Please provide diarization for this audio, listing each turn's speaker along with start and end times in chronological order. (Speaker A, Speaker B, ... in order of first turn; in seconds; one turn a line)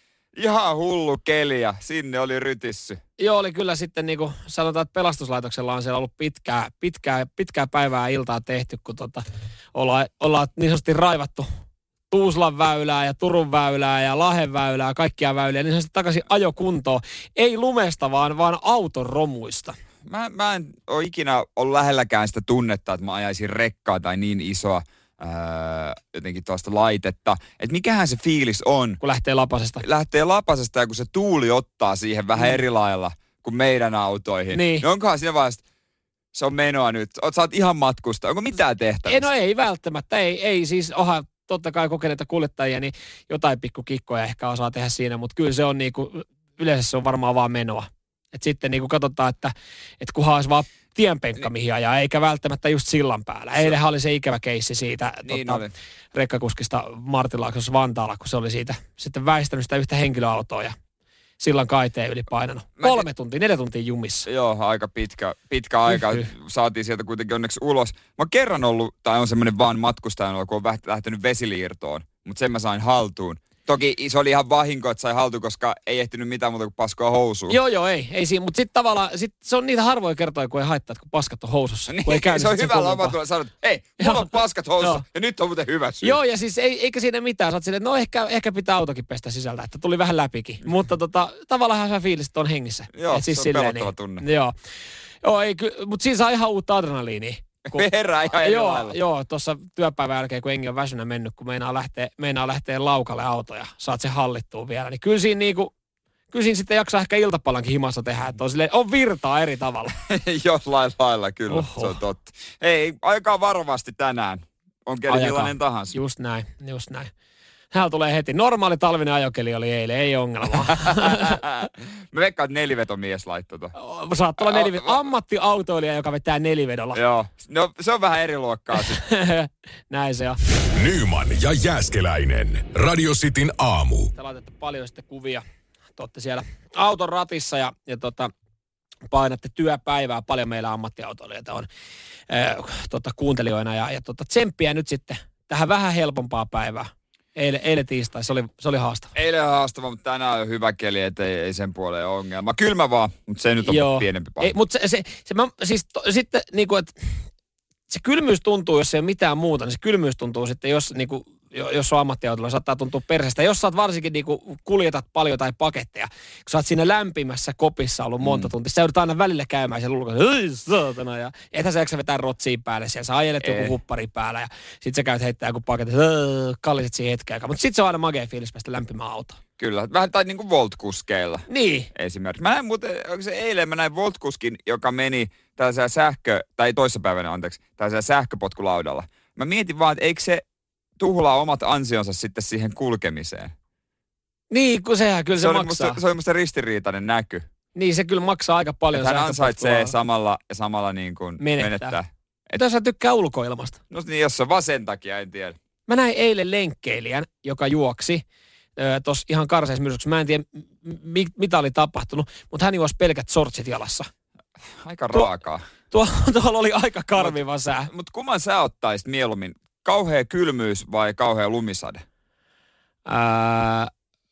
Speaker A: 0.3-3.0
Speaker B: 3.2-9.2
Speaker B: 9.7-11.5
Speaker B: 12.1-19.8
Speaker A: 20.1-29.0
Speaker B: 29.0-29.8
Speaker A: 29.8-35.6
Speaker B: 34.5-34.9
Speaker A: 36.3-39.3
Speaker B: 39.1-60.8
Speaker A: 55.2-55.7
Speaker B: 61.4-64.3
Speaker A: 62.8-63.1
Speaker A: 64.3-77.6
Speaker B: 66.0-66.2
Speaker B: 77.5-83.2
Speaker A: 81.9-86.2
Speaker B: 84.0-85.0
Speaker B: 86.0-94.5
Speaker A: 92.9-94.2
Speaker B: 95.2-97.9
Speaker A: 97.7-99.0
Speaker B: 98.4-105.7
Speaker B: 106.3-110.0
Speaker A: 110.0-116.0
Speaker B: 111.5-112.0
Speaker B: 115.1-117.1
Speaker B: 117.7-121.4
Speaker A: 120.8-123.7
Speaker B: 123.8-127.0
Speaker A: 124.4-125.0
Speaker A: 127.0-129.0
Speaker B: 128.9-130.4
Speaker C: 130.7-134.1
Speaker B: 134.1-135.4
Speaker B: 136.0-138.3
Speaker B: 139.1-141.7
Speaker B: 142.3-149.1
Speaker A: 149.2-154.5
Speaker B: 153.6-156.9
Speaker B: 157.9-179.4
Speaker A: 168.2-168.5
Speaker A: 173.4-173.8
Speaker A: 179.6-190.4
Speaker B: 181.5-181.9
Speaker A: 191.0-193.5
Speaker B: 194.5-196.0
Speaker A: 195.4-197.5
Speaker B: 197.8-199.9
Speaker A: 198.9-202.6
Speaker B: 201.4-201.9
Speaker B: 202.6-203.8
Speaker A: 203.9-205.6
Speaker B: 205.9-208.2
Speaker B: 208.8-214.1
Speaker A: 214.8-215.7
Speaker B: 215.9-217.9
Speaker A: 217.2-222.0
Speaker B: 223.1-223.9